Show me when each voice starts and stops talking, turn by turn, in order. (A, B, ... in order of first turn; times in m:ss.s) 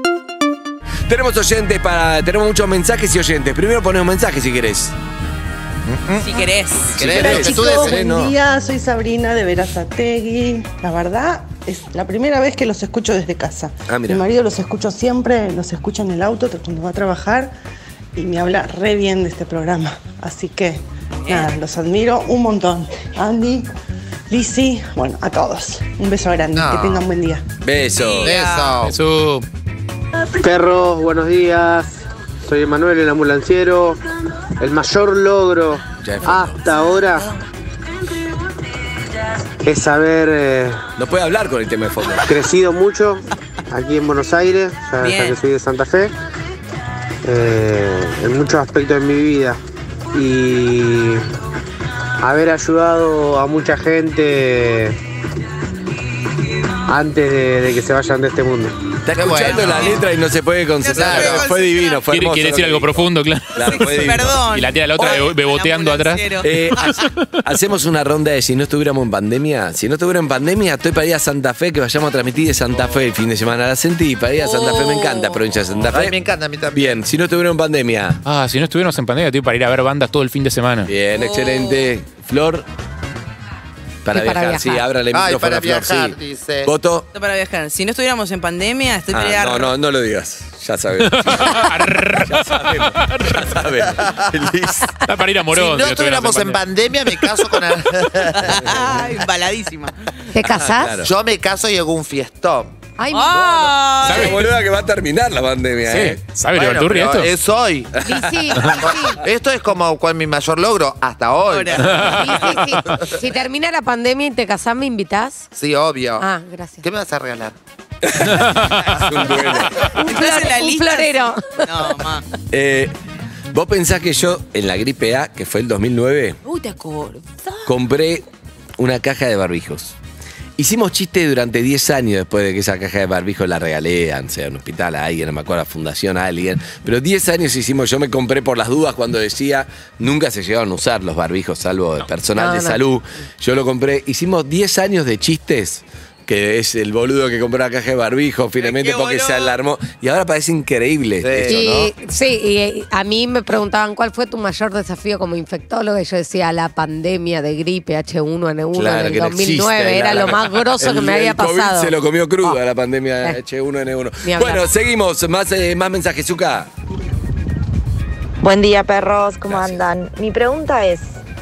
0:01.1-0:04.9 A
0:05.8-0:06.3 B
0:06.2-0:07.1 C
0:06.9-0:08.0 B
0:06.9-0:08.4 A
0:07.1-0:17.5 D
0:13.9-0:14.2 A
0:18.2-0:23.7 D
0:21.2-0:21.5 C
0:24.3-0:27.4 D
0:26.5-0:27.0 B
0:27.6-0:28.4 A
0:27.9-0:28.9 C
0:28.2-0:28.9 B
0:28.8-0:29.4 E
0:30.4-0:31.9 F
0:32.4-0:34.0 F
0:34.6-0:37.3 F
0:36.0-0:36.6 A
0:39.6-0:40.8 F
0:41.0-0:42.3 A
0:42.3-0:46.1 F
0:45.0-0:45.4 C
0:47.2-0:49.6 F
0:50.1-0:51.2 F
0:52.2-0:54.9 F
0:56.8-0:58.8 F
0:59.0-1:04.4 A
0:59.2-1:00.0 B
0:59.5-1:00.0 C
1:00.8-1:02.0 C
1:01.0-1:01.5 B
1:02.1-1:03.8 E
1:03.6-1:06.5 C
1:04.5-1:07.2 E
1:06.4-1:16.1 A
1:14.4-1:15.4 C
1:15.9-1:16.9 B
1:16.7-1:18.2 A
1:18.2-1:20.9 E
1:20.8-1:22.6 A
1:21.1-1:21.9 C
1:24.0-1:27.1 A
1:24.1-1:24.8 G
1:25.1-1:26.7 B
1:27.1-1:29.7 C
1:29.1-1:31.7 A
1:31.0-1:33.6 E
1:32.2-1:34.9 A
1:34.0-1:34.3 B
1:35.1-1:37.4 E
1:35.5-1:38.7 B
1:38.3-1:40.2 C
1:40.3-1:41.0 G
1:40.4-1:41.1 A
1:41.0-1:42.7 B
1:43.0-1:43.9 G
1:43.1-1:44.5 C
1:44.0-1:46.2 A
1:44.0-1:44.4 E
1:45.8-1:47.4 E
1:46.5-1:48.0 B
1:48.0-1:49.2 G
1:48.5-1:53.2 B
1:51.4-1:52.6 C
1:51.8-1:52.3 E
1:52.2-1:55.4 G
1:55.5-1:56.3 B
1:56.2-1:56.8 G
1:56.8-1:57.5 B
1:58.1-1:59.9 A
1:58.2-1:59.3 E
2:00.0-2:02.2 G
2:00.0-2:02.2 C
2:02.5-2:02.9 A
2:03.5-2:06.4 A
2:06.4-2:07.7 C
2:07.6-2:08.2 A
2:08.8-2:10.0 A
2:10.6-2:31.6 A
2:22.3-2:22.8 G
2:28.6-2:29.6 C
2:31.2-2:31.9 B
2:31.4-2:42.6 G
2:38.7-2:46.7 A
2:44.2-2:44.7 G
2:48.4-2:51.2 H
2:49.5-2:49.8 A